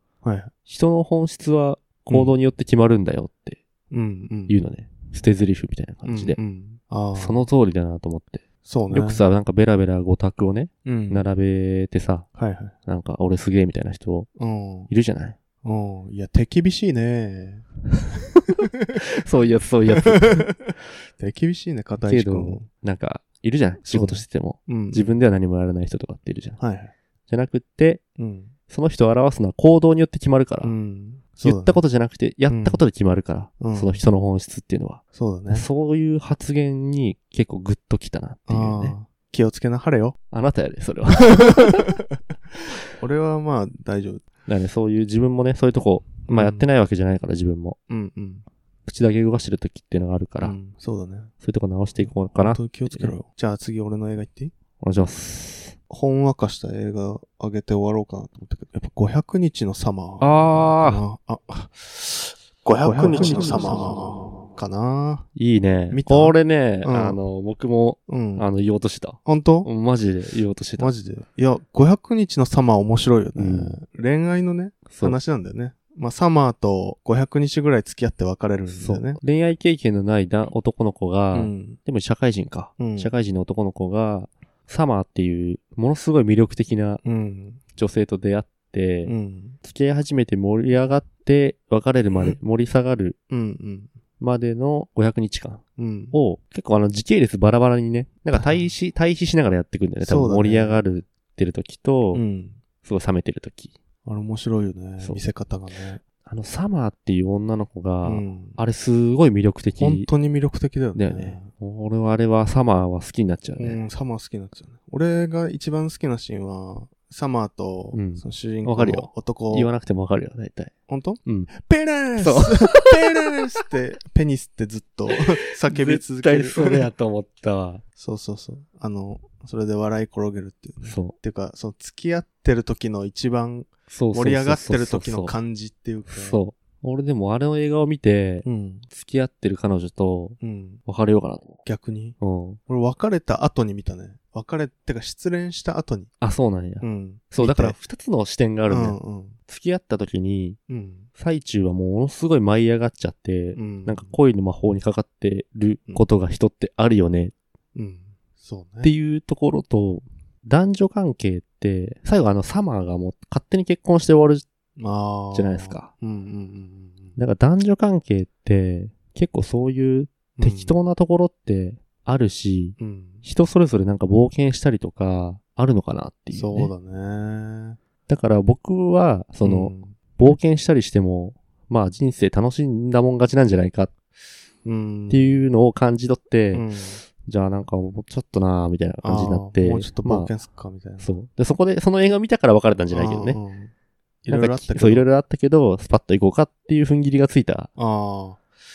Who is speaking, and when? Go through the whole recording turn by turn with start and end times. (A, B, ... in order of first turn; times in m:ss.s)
0:00.2-0:00.5 A
0:00.6-0:03.6 B
0:03.9-0:04.6 A
0:04.5-0:06.4 B
0:06.0-0:07.4 A
0:07.1-0:12.3 B
0:08.6-0:09.2 A
0:10.8-0:11.2 A
0:12.4-0:12.7 A
0:12.8-0:14.3 B
0:14.4-0:14.9 A
0:14.9-0:15.4 B
0:15.6-0:17.6 A
0:18.9-0:20.5 B
0:20.1-0:22.6 A
0:22.0-0:26.6 B
0:23.9-0:25.1 A
0:26.6-0:26.9 A
0:27.3-0:28.0 B
0:28.2-0:28.5 A
0:28.7-0:30.7 B
0:30.6-0:31.8 A
0:31.4-0:38.9 B
0:32.5-0:32.8 A
0:33.6-0:34.0 A
0:35.1-0:35.7 A
0:38.5-0:40.2 A
0:40.3-0:41.9 B
0:43.0-0:44.2 A
0:44.5-0:47.8 B
0:46.3-0:46.7 A
0:47.9-0:48.4 A
0:48.8-0:50.6 B
0:50.4-0:51.3 A
0:51.4-0:53.2 B
0:52.0-0:54.5 A
0:54.8-0:55.7 B
0:55.9-1:05.2 A
1:00.2-1:01.0 B
1:02.8-1:04.1 B
1:05.3-1:10.9 B
1:05.9-1:07.2 A
1:08.1-1:08.5 A
1:09.2-1:09.7 A
1:10.8-1:19.2 A
1:13.4-1:13.8 B
1:14.9-1:15.2 B
1:18.7-1:27.0 B
1:21.3-1:21.8 A
1:22.8-1:23.1 A
1:27.0-1:27.6 A
1:27.7-1:33.2 B
1:29.0-1:29.6 A
1:33.3-1:33.9 A
1:34.2-1:42.2 B
1:35.8-1:36.1 A
1:38.3-1:38.7 A
1:40.0-1:40.8 A
1:42.1-1:42.6 A
1:42.8-1:43.7 B
1:44.0-1:46.0 A
1:46.2-1:50.1 B
1:48.0-1:48.6 A
1:49.8-1:51.5 A
1:50.9-1:53.8 B
1:53.6-1:59.7 A
1:57.9-2:00.7 B
2:00.9-2:06.9 A
2:01.2-2:01.5 B
2:02.1-2:03.2 B
2:05.7-2:07.8 B
2:08.0-2:16.4 A
2:10.8-2:11.1 B
2:13.9-2:15.3 B
2:16.1-2:21.6 B
2:18.4-2:18.9 A
2:20.4-2:20.8 A
2:21.6-2:26.1 A
2:22.2-2:22.6 B
2:26.2-2:30.6 B
2:26.8-2:27.8 A
2:28.7-2:29.4 A
2:30.7-2:31.1 A
2:31.2-2:37.3 B
2:33.5-2:34.1 A
2:37.7-2:38.9 A
2:38.8-2:44.4 B
2:44.8-2:47.2 A
2:45.3-2:45.9 B
2:47.2-2:56.7 B
2:50.4-2:50.7 A
2:52.8-2:53.2 A
2:56.3-2:57.8 A
2:58.1-3:03.9 B
2:59.4-3:00.0 A
3:04.6-3:05.3 A
3:05.1-3:06.6 B
3:06.5-3:07.0 A
3:07.2-3:10.3 B
3:09.0-3:11.1 A
3:11.0-3:13.4 B
3:12.9-3:13.7 A
3:14.2-3:15.0 A
3:14.3-3:17.7 B
3:17.8-3:18.4 A